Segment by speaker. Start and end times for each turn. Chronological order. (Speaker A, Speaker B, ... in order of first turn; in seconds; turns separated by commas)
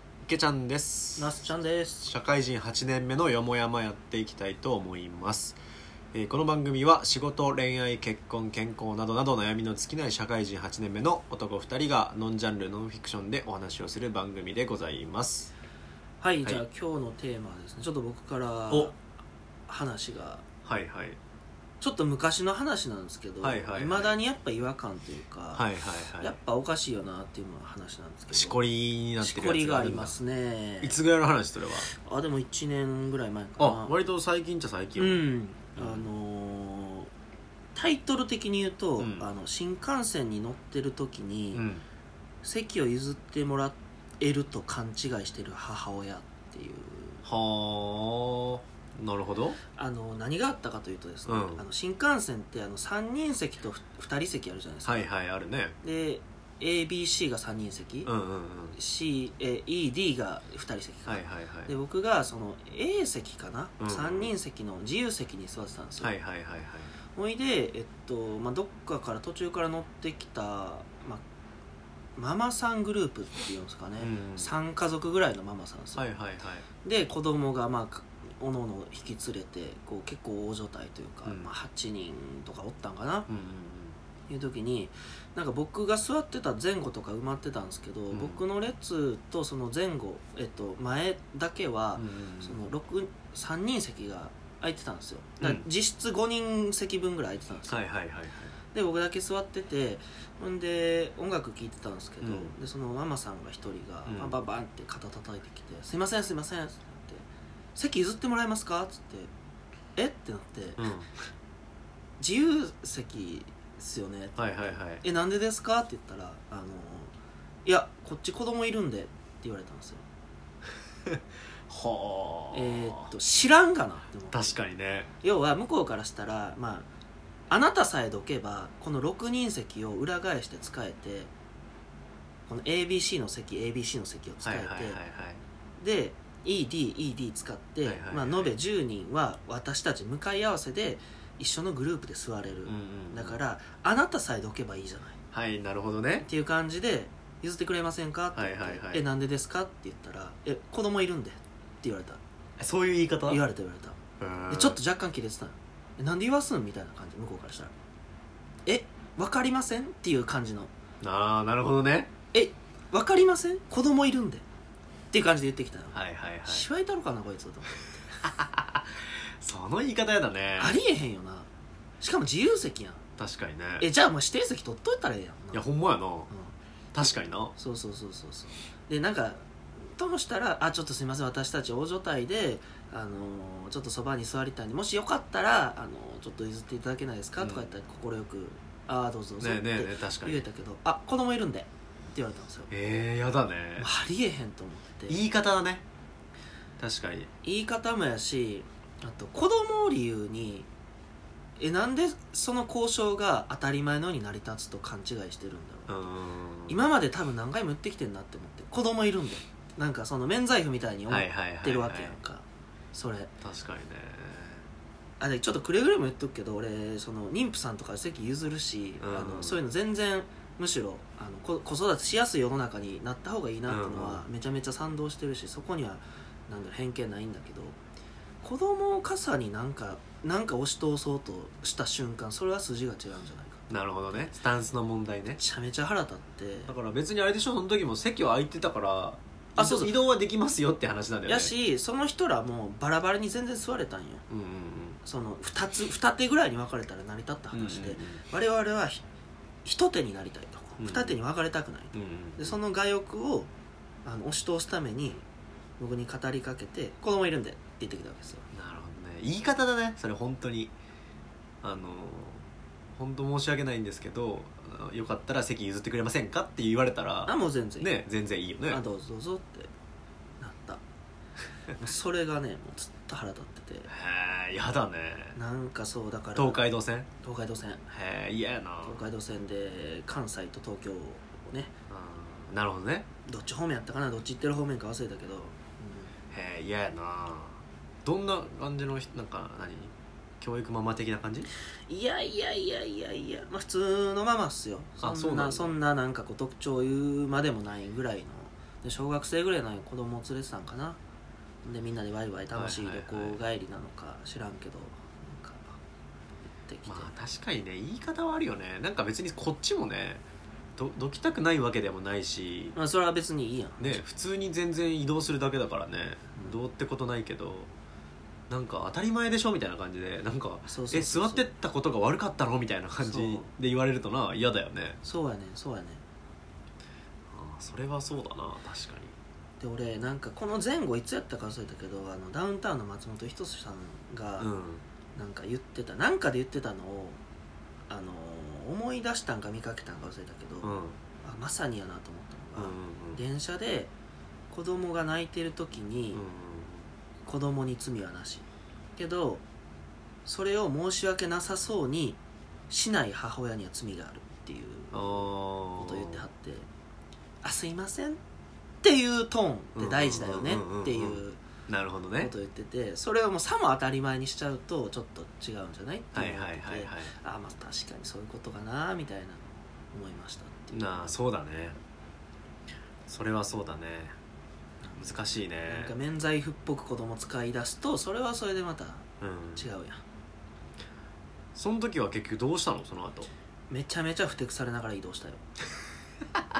Speaker A: 0.2-1.4, Speaker B: 1.1-2.1, Speaker A: 2.0-5.6, Speaker A: 6.1-15.5, Speaker B: 16.2-19.0, Speaker B: 19.7-20.4, Speaker A: 20.6-21.2, Speaker B: 21.8-25.7, Speaker A: 23.4-24.1, Speaker A: 25.5-26.4, Speaker B: 26.2-28.6, Speaker A: 28.3-30.1, Speaker B: 29.2-31.0, Speaker A: 30.8-31.9, Speaker B: 31.9-33.9, Speaker A: 33.6-35.2, Speaker B: 35.0-37.1, Speaker A: 35.8-36.1, Speaker B: 37.7-41.6, Speaker A: 39.0-39.3, Speaker A: 41.5-41.8, Speaker B: 42.4-47.2, Speaker A: 47.2-49.6, Speaker B: 49.7-55.1, Speaker A: 51.2-51.6, Speaker A: 54.8-55.8, Speaker B: 55.8-58.1, Speaker A: 58.0-58.8, Speaker B: 58.7-66.1, Speaker A: 61.0-61.7, Speaker A: 63.8-64.3, Speaker A: 66.0-66.9, Speaker B: 67.1-71.2, Speaker B: 72.2-76.1, Speaker A: 74.0-74.5, Speaker A: 76.0-76.6, Speaker B: 76.8-83.3, Speaker A: 81.2-81.5, Speaker A: 83.3-84.0, Speaker B: 84.3-97.9, Speaker A: 88.1-88.4, Speaker A: 92.0-92.6, Speaker A: 97.7-98.5, Speaker B: 98.7-107.2, Speaker A: 102.2-102.5, Speaker A: 104.0-104.4, Speaker B: 107.7-109.3, Speaker B: 110.0-110.8, Speaker A: 110.8-111.1, Speaker B: 112.2-117.1, Speaker A: 114.4-115.0, Speaker B: 117.6-120.0, Speaker A: 121.1-123.1, Speaker B: 122.5-124.5, Speaker A: 124.3-125.1, Speaker B: 125.2-126.9, Speaker B: 127.5-131.3, Speaker B: 132.5-135.0, Speaker A: 134.4-135.4, Speaker B: 135.8-145.2, Speaker A: 137.8-138.5, Speaker A: 142.7-143.4, Speaker A: 145.3-146.3, Speaker B: 146.2-152.2, Speaker A: 148.3-149.1, Speaker A: 152.6-153.4, Speaker B: 153.3-154.0, Speaker A: 154.2-154.8, Speaker B: 154.5-157.7, Speaker B: 158.7-160.7, Speaker A: 161.0-162.1, Speaker B: 162.3-164.4, Speaker B: 165.1-168.0, Speaker A: 165.9-166.7, Speaker A: 168.2-168.8, Speaker A: 169.4-170.8, Speaker B: 170.6-171.5, Speaker B: 172.0-173.0, Speaker A: 173.2-173.8, Speaker B: 173.8-175.6, Speaker A: 175.5-176.3, Speaker A: 176.9-177.5, Speaker B: 177.6-192.7, Speaker A: 187.4-187.7, Speaker A: 189.4-190.4, Speaker A: 192.7-193.9, Speaker B: 193.8-195.2, Speaker A: 195.1-195.8, Speaker A: 196.8-197.3, Speaker B: 197.4-200.7, Speaker B: 201.6-206.0, Speaker A: 205.9-206.8, Speaker B: 206.7-213.3, Speaker A: 211.1-212.2, Speaker A: 213.4-214.6, Speaker B: 215.2-227.8, Speaker A: 219.0-219.6, Speaker A: 223.7-224.2, Speaker B: 228.4-234.3, Speaker A: 233.7-235.4, Speaker B: 235.3-236.7, Speaker A: 236.7-241.5, Speaker B: 239.6-240.0, Speaker B: 241.2-244.2, Speaker A: 244.3-245.0, Speaker B: 245.0-249.0, Speaker A: 247.5-248.2, Speaker B: 249.6-253.5, Speaker A: 250.8-251.2, Speaker A: 251.9-252.6, Speaker B: 254.0-255.2, Speaker B: 255.8-258.4, Speaker A: 258.5-260.7, Speaker A: 261.6-268.8, Speaker B: 267.3-267.9, Speaker B: 268.7-269.7, Speaker B: 270.4-270.8, Speaker B: 271.7-273.9, Speaker A: 273.9-275.4, Speaker B: 275.3-276.6, Speaker A: 276.4-277.1, Speaker B: 277.2-277.8, Speaker A: 277.9-279.1, Speaker B: 278.8-281.7, Speaker A: 281.9-283.1, Speaker B: 283.2-286.1, Speaker A: 286.3-291.5, Speaker B: 291.9-301.0, Speaker A: 295.0-295.8, Speaker B: 301.6-305.8, Speaker A: 302.5-303.4, Speaker B: 306.4-307.1, Speaker A: 306.9-310.2, Speaker A: 310.8-312.8, Speaker B: 312.7-314.0, Speaker A: 313.8-317.7, Speaker A: 318.5-325.0, Speaker B: 320.7-321.5, Speaker B: 323.0-323.5, Speaker B: 325.0-326.0, Speaker A: 327.3-329.2, Speaker B: 329.6-334.5, Speaker A: 334.4-334.8, Speaker B: 335.1-337.2, Speaker B: 337.9-343.9, Speaker A: 340.6-341.0, Speaker A: 342.6-343.2, Speaker B: 344.5-346.2, Speaker A: 346.1-346.9, Speaker B: 347.2-348.4, Speaker B: 349.0-349.4, Speaker B: 350.2-352.2, Speaker B: 352.7-356.7, Speaker A: 354.9-356.2, Speaker B: 357.4-358.2, Speaker B: 358.8-361.4, Speaker A: 359.8-362.3, Speaker B: 362.2-371.1, Speaker A: 366.1-367.1, Speaker A: 370.7-371.8, Speaker A: 373.1-374.1, Speaker B: 374.8-380.0, Speaker A: 375.0-375.9, Speaker A: 379.2-379.6, Speaker A: 381.5-383.3, Speaker B: 383.7-385.4